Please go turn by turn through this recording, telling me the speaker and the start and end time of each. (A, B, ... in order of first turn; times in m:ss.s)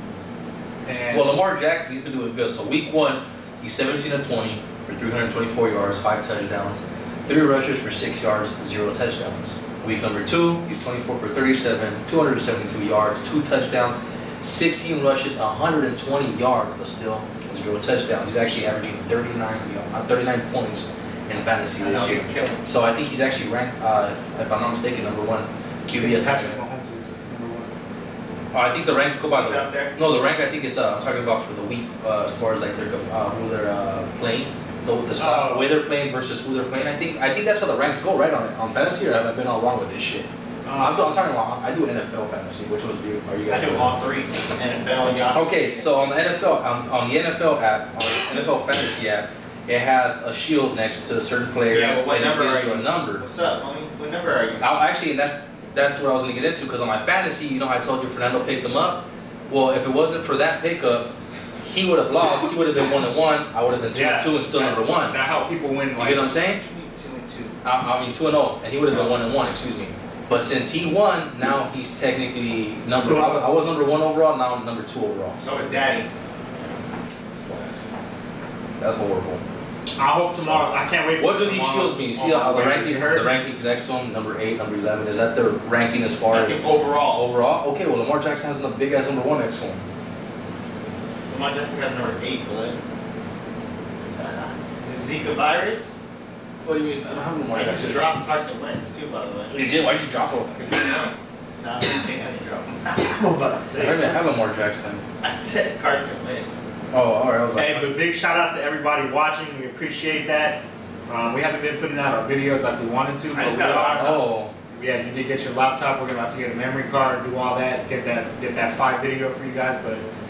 0:00.8-0:01.4 A
0:01.1-0:26.6 B
0:21.8-0:22.6 C
0:21.9-0:22.4 A
0:25.9-0:27.7 A
0:28.5-0:43.9 B
0:29.3-0:29.9 C
0:35.2-0:35.7 A
0:40.6-0:41.1 A
0:43.5-0:46.1 C
0:45.3-0:53.2 B
0:51.7-0:54.7 C
0:54.6-1:05.2 B
1:03.9-1:06.3 A
1:06.0-1:06.6 B
1:06.6-1:07.6 C
1:07.6-1:15.6 B
1:13.0-1:13.5 A
1:15.4-1:16.1 C
1:17.3-1:17.7 B
1:18.8-1:19.4 B
1:20.0-1:23.3 A
1:20.3-1:29.8 B
1:26.3-1:27.2 C
1:31.3-1:32.8 C
1:34.2-1:36.0 C
1:36.6-1:38.2 B
1:37.5-1:39.5 C
1:39.5-1:41.0 B
1:40.6-1:44.0 C
1:43.6-1:44.2 A
1:43.8-1:45.0 B
1:45.2-1:46.6 C
1:46.9-1:47.9 B
1:47.5-1:54.0 A
1:53.3-1:54.2 C
1:53.8-1:54.5 B
1:54.7-2:00.0 A